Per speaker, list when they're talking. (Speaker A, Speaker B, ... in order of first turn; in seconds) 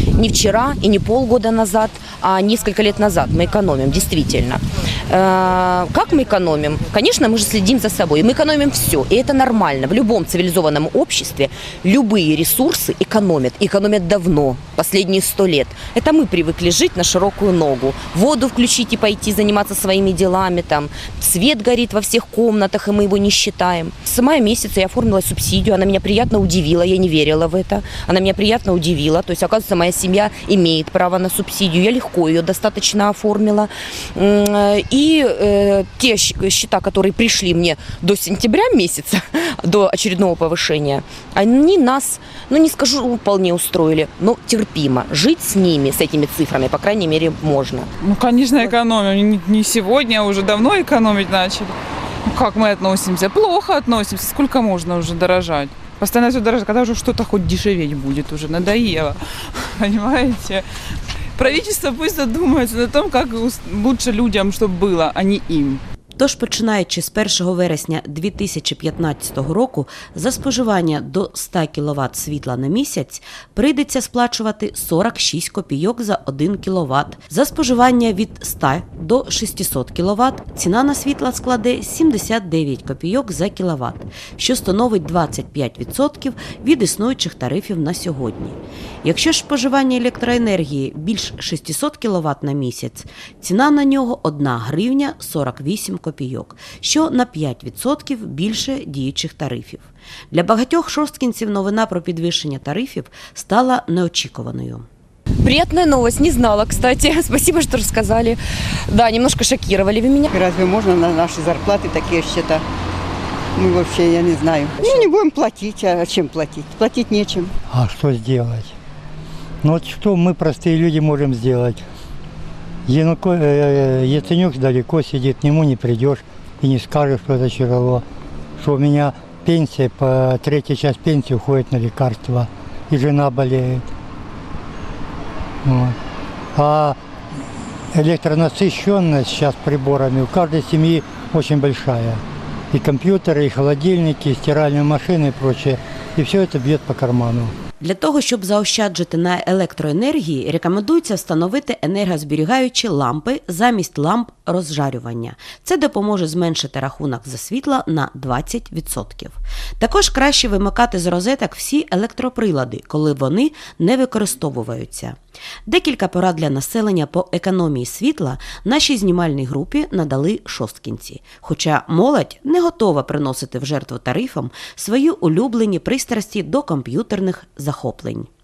Speaker A: 0.2-47.9, 105.4-108.4, 108.9-110.3
Speaker B: 48.0-51.7, 52.3-59.2, 59.8-60.6, 61.4-65.8
Speaker C: 66.2-104.9, 147.8-178.3
Speaker D: 110.3-112.6, 113.6-117.5
Speaker E: 118.0-118.6, 119.8-121.7, 123.0-128.0, 128.6-133.8, 135.7-135.9, 136.6-136.9, 138.0-142.2, 142.7-147.5